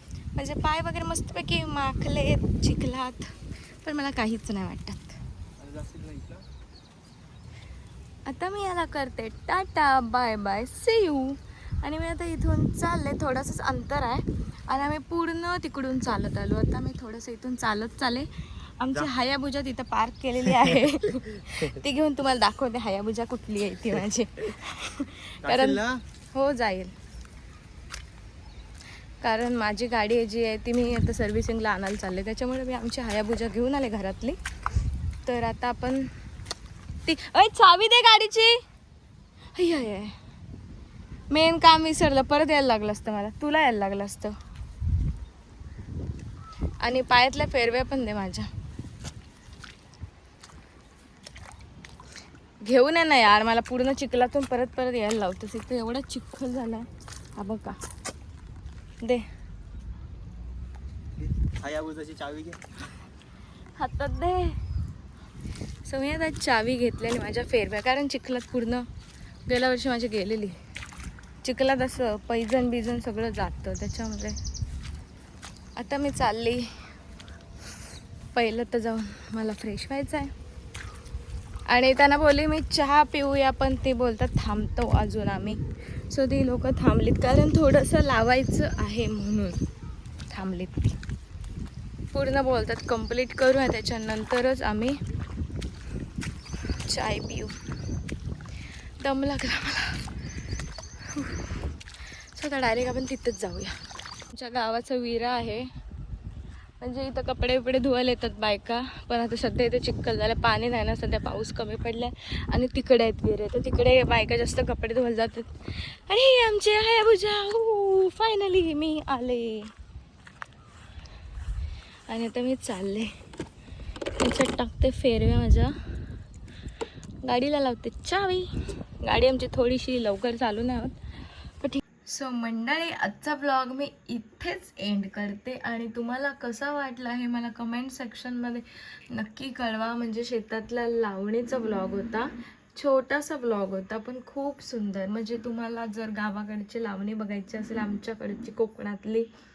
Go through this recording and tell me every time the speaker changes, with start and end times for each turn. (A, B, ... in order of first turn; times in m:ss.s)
0:00.3-0:05.2 A
0:05.6-0:06.4 B
0:08.2-0:25.8 A
0:25.4-0:26.0 B
0:26.3-0:26.9 A
0:29.2-0:34.4 A
0:35.2-0:36.1 A
0:37.0-0:38.6 A
0:39.5-0:40.1 A
0:41.3-0:44.3 A
0:46.8-0:48.5 A
0:52.6-0:57.8 A
1:01.2-1:02.6 B
1:03.8-1:04.6 A
1:05.8-1:08.8 A
1:09.5-1:10.6 A
1:11.4-1:14.4 A
1:15.8-1:16.7 A
1:18.3-1:20.3 A
1:21.7-1:29.6 A
1:30.3-1:30.9 A
1:32.1-1:35.0 A
1:36.7-1:37.5 A
1:39.0-1:40.1 A
1:41.1-1:41.6 A
1:42.1-1:45.7 A
1:46.8-1:59.7 A
2:02.1-2:03.1 A
2:04.2-2:05.7 A
2:07.2-2:11.0 A
2:11.6-2:29.3 A